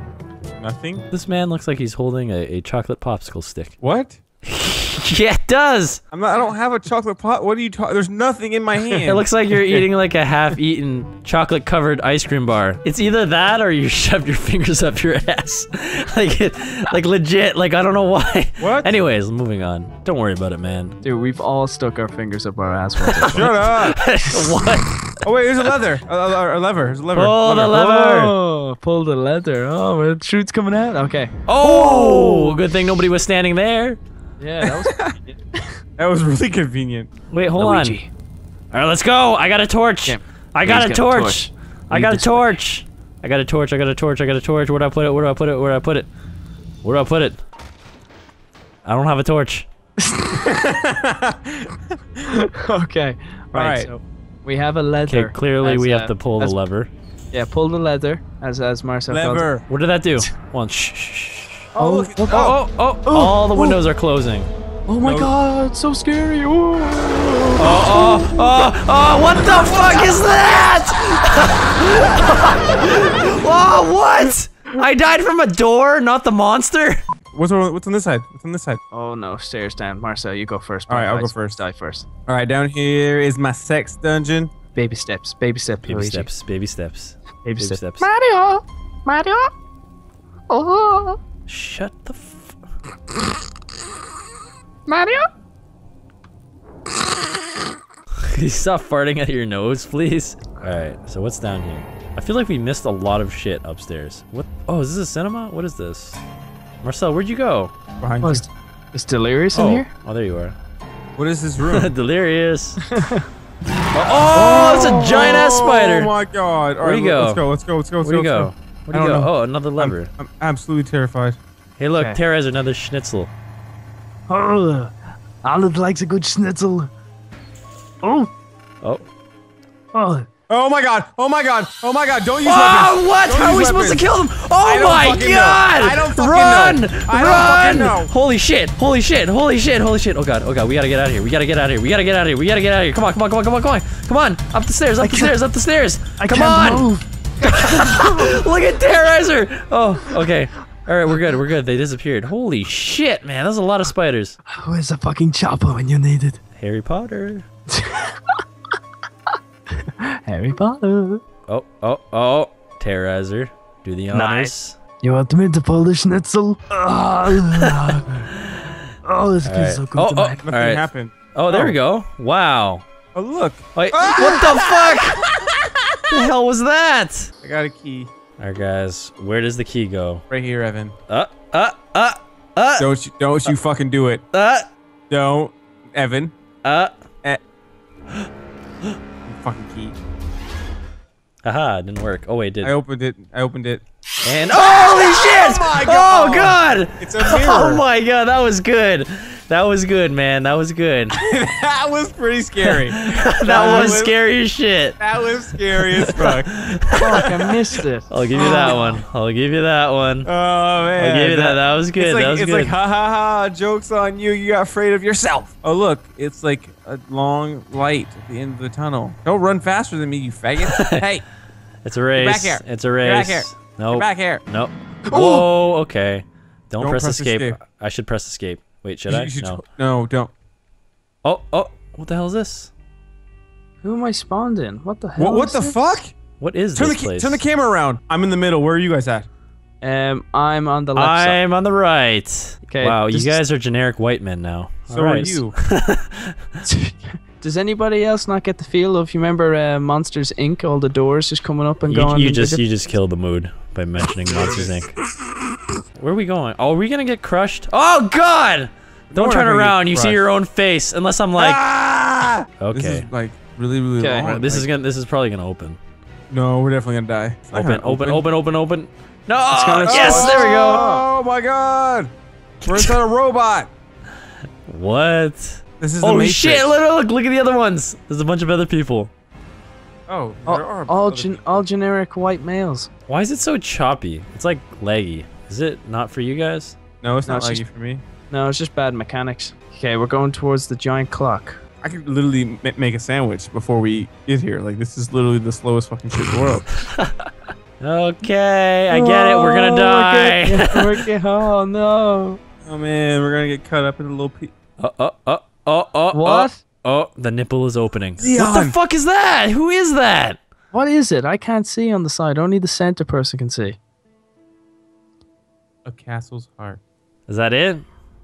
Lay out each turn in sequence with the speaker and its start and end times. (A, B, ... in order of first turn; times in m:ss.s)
0:00.6-0:01.1 A
0:01.1-0:03.8 B
0:03.8-0:04.2 A
0:04.4-0:06.0 B
0:06.1-0:09.3 A
0:09.0-0:21.0 B
0:18.6-0:18.9 A
0:21.0-0:23.5 C
0:23.1-0:25.2 B
0:23.3-0:24.0 A
0:25.2-0:27.9 A
0:27.1-0:28.3 B
0:27.6-0:32.6 C
0:31.5-0:34.0 B
0:34.4-0:35.7 C
0:34.6-0:35.2 A
0:36.0-0:37.1 A
0:37.3-0:38.0 B
0:37.5-0:38.1 C
0:38.7-0:46.1 B
0:40.0-0:42.6 C
0:46.8-0:47.4 B
0:48.8-0:49.7 B
0:50.0-0:50.4 C
0:50.4-0:51.8 A
0:52.2-0:56.6 C
0:53.5-0:53.9 A
0:55.1-0:56.9 B
0:57.3-0:59.5 C
0:59.1-0:59.7 A
0:59.7-1:01.7 B
1:01.7-1:03.8 C
1:01.8-1:02.6 A
1:02.3-1:04.5 B
1:04.9-1:08.2 C
1:05.0-1:05.3 A
1:07.6-1:17.0 B
1:17.3-1:18.8 A
1:18.9-1:22.1 C
1:20.9-1:21.6 A
1:22.3-1:24.5 A
1:24.7-1:26.3 C
1:25.9-1:28.1 B
1:27.4-1:29.5 C
1:30.5-1:31.0 C
1:30.7-1:31.0 D
1:31.4-1:32.6 B
1:34.9-1:35.2 C
1:38.2-1:46.2 B
1:46.8-1:47.7 B
1:48.0-1:48.4 A
1:48.2-1:49.9 C
1:49.5-1:50.5 B
1:51.2-1:51.9 A
1:51.6-1:52.9 B
1:52.9-1:53.3 C
1:53.9-1:56.1 B
1:54.3-2:01.4 A
1:56.8-1:57.4 B
1:58.0-2:00.1 B
2:01.8-2:03.3 B
2:04.3-2:04.9 D
2:05.4-2:06.9 D
2:08.0-2:08.3 D
2:09.9-2:10.3 D
2:10.5-2:18.1 A
2:12.4-2:26.9 B
2:25.0-2:25.3 D
2:26.2-2:27.0 D
2:27.4-2:34.4 B
2:27.6-2:28.0 D
2:34.5-2:36.4 D
2:36.6-2:37.4 B
2:40.2-2:41.2 C
2:41.5-2:44.8 B
2:44.1-2:44.5 D
2:44.1-2:44.5 C
2:45.0-2:48.3 D
2:47.5-2:48.6 B
2:49.0-2:50.4 D
2:49.4-2:52.8 B
2:50.4-2:51.8 A
2:53.1-2:55.3 A
2:53.7-2:55.3 B
2:56.0-2:57.3 B
2:57.4-2:58.1 A
2:58.4-3:00.2 B
3:00.3-3:01.0 A
3:01.1-3:02.9 B
3:02.8-3:04.3 A
3:04.3-3:04.7 B
3:05.1-3:06.3 A
3:06.6-3:06.9 B
3:09.2-3:09.9 A
3:11.4-3:12.8 B
3:12.6-3:13.8 A
3:14.2-3:21.2 B
3:14.5-3:17.8 A
3:21.1-3:24.2 A
3:22.7-3:25.0 B
3:23.5-3:24.0 C
3:25.0-3:26.6 A
3:25.9-3:27.2 B
3:26.9-3:29.0 C
3:28.1-3:30.3 B
3:28.4-3:28.8 A
3:30.2-3:41.2 A
3:31.0-3:32.7 B
3:40.6-3:41.0 B
3:41.8-3:49.6 B
3:42.1-3:44.4 A
3:45.1-3:45.4 C
3:46.8-3:47.6 A
3:49.1-3:50.3 A
3:51.2-3:52.7 B
3:53.8-3:55.8 C
3:55.2-3:56.2 A
3:56.4-3:57.4 B
3:56.7-3:59.3 A
3:59.8-4:01.4 C
4:01.0-4:06.4 B
4:02.7-4:03.4 C
4:04.9-4:05.6 A
4:06.6-4:12.6 C
4:11.9-4:14.9 B
4:14.4-4:14.8 A
4:16.0-4:21.6 B
4:19.1-4:20.2 A
4:21.4-4:24.7 A
4:22.6-4:23.1 B
4:24.0-4:24.3 C
4:24.1-4:25.8 B
4:26.3-4:28.2 A
4:27.5-4:31.0 B
4:29.5-4:31.0 C
4:29.8-4:32.1 A
4:32.6-4:33.7 A
4:32.7-4:33.0 B
4:34.6-4:39.1 B
4:35.8-4:36.8 A
4:40.1-4:41.6 A
4:40.4-4:42.9 C
4:43.1-4:46.8 B
4:47.0-4:48.0 A
4:47.2-4:47.6 C
4:48.3-4:51.6 C
4:51.8-4:56.7 A
4:56.8-4:57.3 B
4:57.8-5:01.0 B
4:58.9-5:02.4 C
5:02.6-5:04.5 A
5:04.8-5:10.4 B
5:06.1-5:06.6 C
5:08.2-5:08.8 A
5:10.7-5:13.8 C
5:15.8-5:16.8 A
5:17.3-5:17.8 B